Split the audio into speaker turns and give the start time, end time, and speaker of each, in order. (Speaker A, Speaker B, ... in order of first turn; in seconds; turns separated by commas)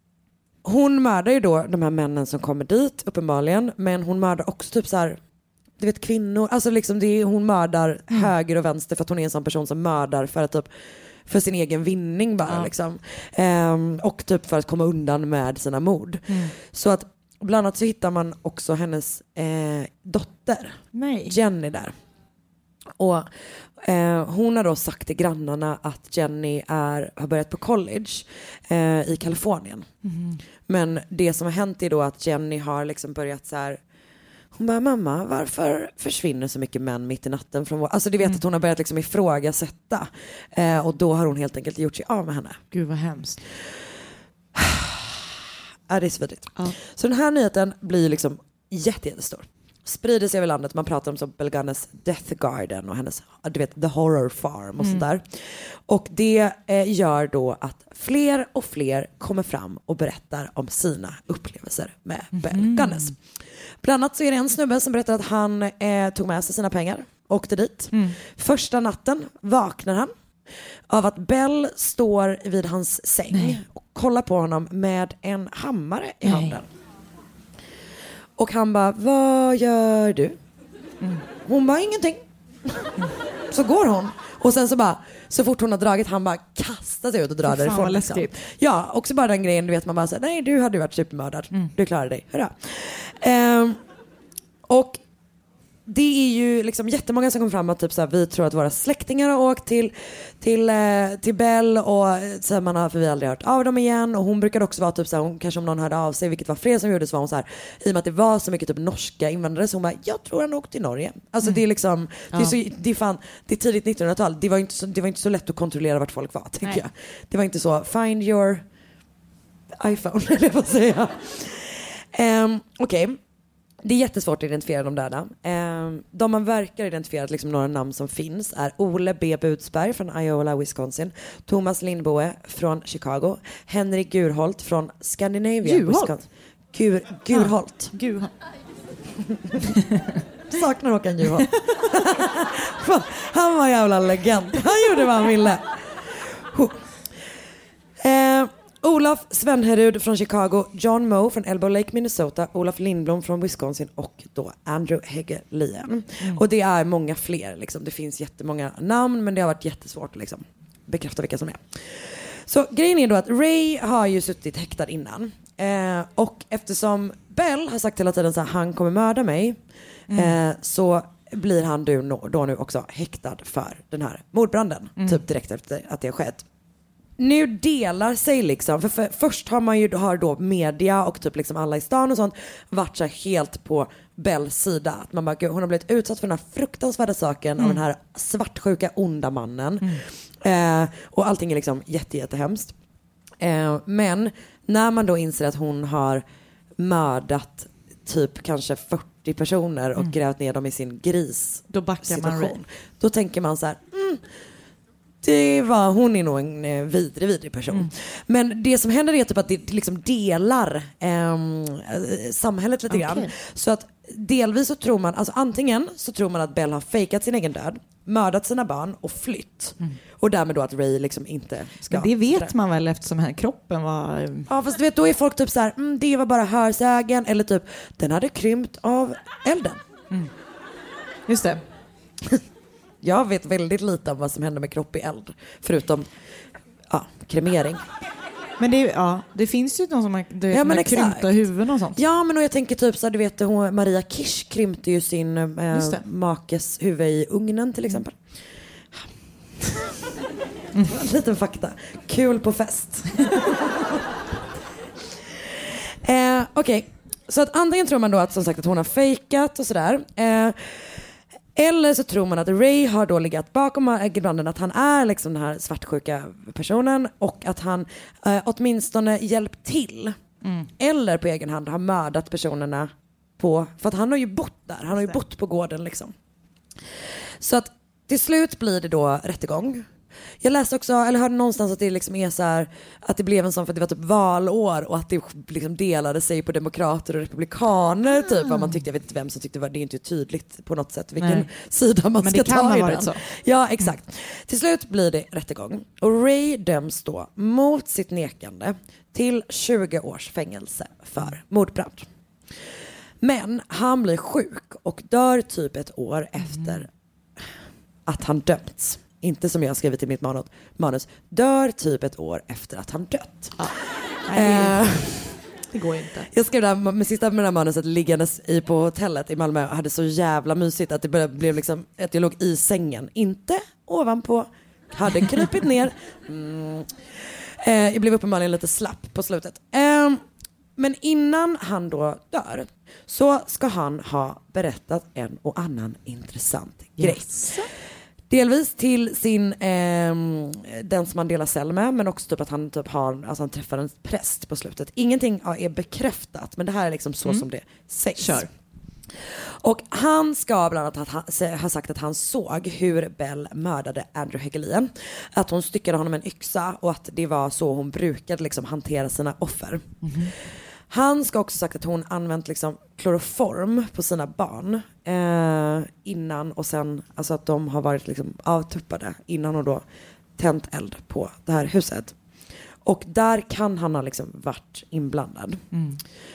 Speaker A: 0.6-5.2, Speaker A: 5.8-10.7, Speaker A: 11.3-21.9, Speaker B: 16.3-16.5, Speaker B: 20.9-21.4, Speaker A: 23.0-29.9, Speaker B: 30.0-30.4, Speaker A: 30.7-33.8, Speaker A: 34.5-42.6, Speaker B: 42.7-43.4, Speaker A: 44.5-45.3, Speaker A: 45.9-63.2, Speaker B: 54.8-55.0, Speaker B: 62.3-63.1, Speaker A: 63.8-70.1, Speaker A: 70.9-76.7, Speaker B: 73.3-73.6, Speaker B: 76.2-76.6, Speaker A: 78.4-80.4, Speaker A: 81.5-83.0, Speaker A: 83.5-93.8, Speaker B: 87.5-88.4, Speaker A: 94.7-95.0, Speaker A: 95.9-118.6, Speaker A: 119.8-123.2, Speaker A: 123.8-137.9, Speaker B: 135.6-136.1, Speaker B: 137.3-138.3, Speaker A: 139.3-139.7, Speaker A: 140.5-146.8, Speaker A: 148.0-169.6, Speaker B: 170.1-170.4, Speaker A: 170.1-176.4, Speaker A: 177.2-192.7, Speaker A: 193.4-196.2, Speaker A: 196.8-204.2, Speaker B: 201.7-202.6, Speaker A: 205.2-222.5, Speaker B: 212.9-213.3, Speaker B: 221.9-224.5, Speaker A: 224.5-229.8, Speaker B: 231.3-231.6, Speaker A: 233.0-236.1, Speaker A: 236.9-237.8, Speaker B: 238.6-242.0, Speaker A: 240.5-241.3, Speaker A: 241.9-248.2, Speaker B: 245.7-246.0, Speaker A: 249.6-250.0, Speaker A: 250.8-254.0, Speaker A: 255.1-270.2, Speaker A: 270.8-276.1, Speaker A: 277.4-279.9, Speaker A: 280.4-302.1, Speaker B: 291.2-291.5, Speaker B: 292.2-293.2, Speaker A: 303.2-306.9, Speaker B: 306.4-306.8, Speaker A: 308.1-313.7, Speaker B: 313.6-314.9, Speaker A: 314.3-315.4, Speaker B: 315.7-316.3, Speaker A: 316.3-330.2, Speaker A: 330.8-337.6, Speaker B: 337.0-337.7, Speaker A: 338.3-348.5, Speaker B: 348.2-348.5, Speaker A: 349.2-369.8, Speaker B: 360.0-360.3, Speaker A: 370.4-372.1, Speaker A: 372.8-375.6, Speaker B: 375.7-376.0